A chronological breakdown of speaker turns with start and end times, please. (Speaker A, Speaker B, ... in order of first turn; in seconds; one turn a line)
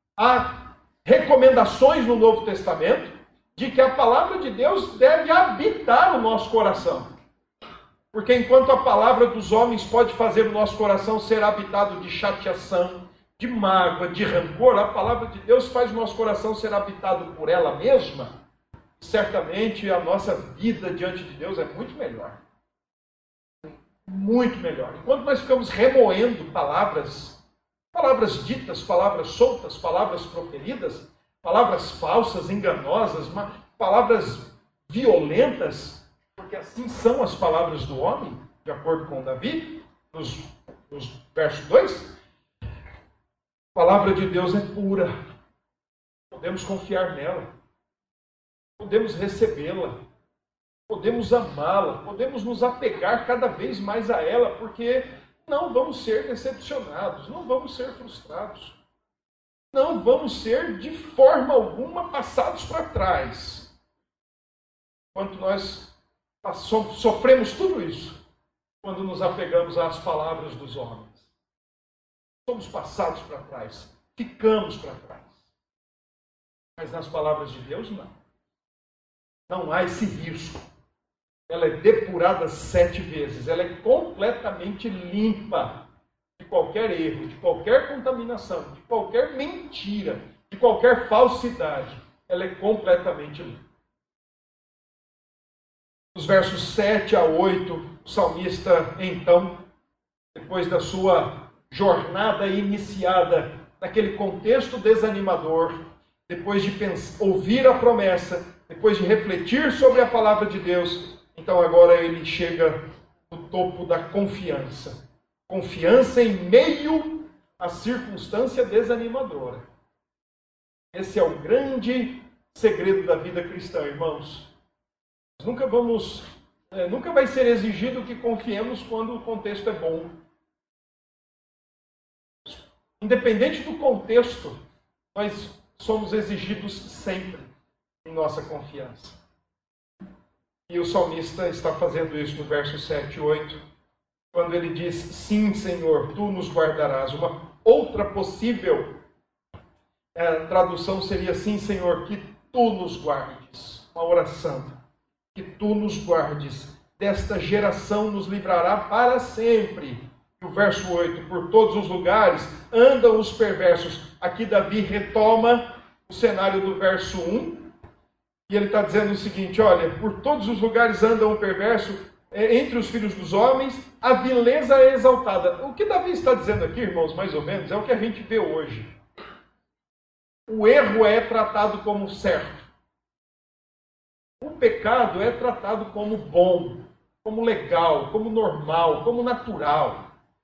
Speaker A: 0.2-7.1
Speaker A: 8.1-18.3
Speaker A: 19.0-22.4
Speaker A: 24.1-27.4
Speaker A: 27.9-42.1
Speaker A: 43.7-45.1
Speaker A: 46.3-47.5
Speaker A: 48.8-50.0
Speaker A: 50.9-58.7
Speaker A: 59.7-63.7
Speaker A: 65.1-68.2
Speaker A: 68.8-71.3
Speaker A: 72.5-75.4
Speaker A: 76.8-78.1
Speaker A: 79.5-80.7
Speaker A: 81.5-85.8
Speaker A: 86.4-93.6
Speaker A: 96.1-99.6
Speaker A: 100.3-119.6
Speaker A: 120.9-124.5
Speaker A: 125.4-130.1
Speaker A: 132.4-134.6
Speaker A: 135.1-137.5
Speaker A: 138.0-139.2
Speaker A: 140.7-143.6
Speaker A: 144.3-148.9
Speaker A: 150.1-154.8
Speaker A: 155.3-167.7
Speaker A: 168.5-178.9
Speaker A: 180.5-182.7
Speaker A: 184.4-190.1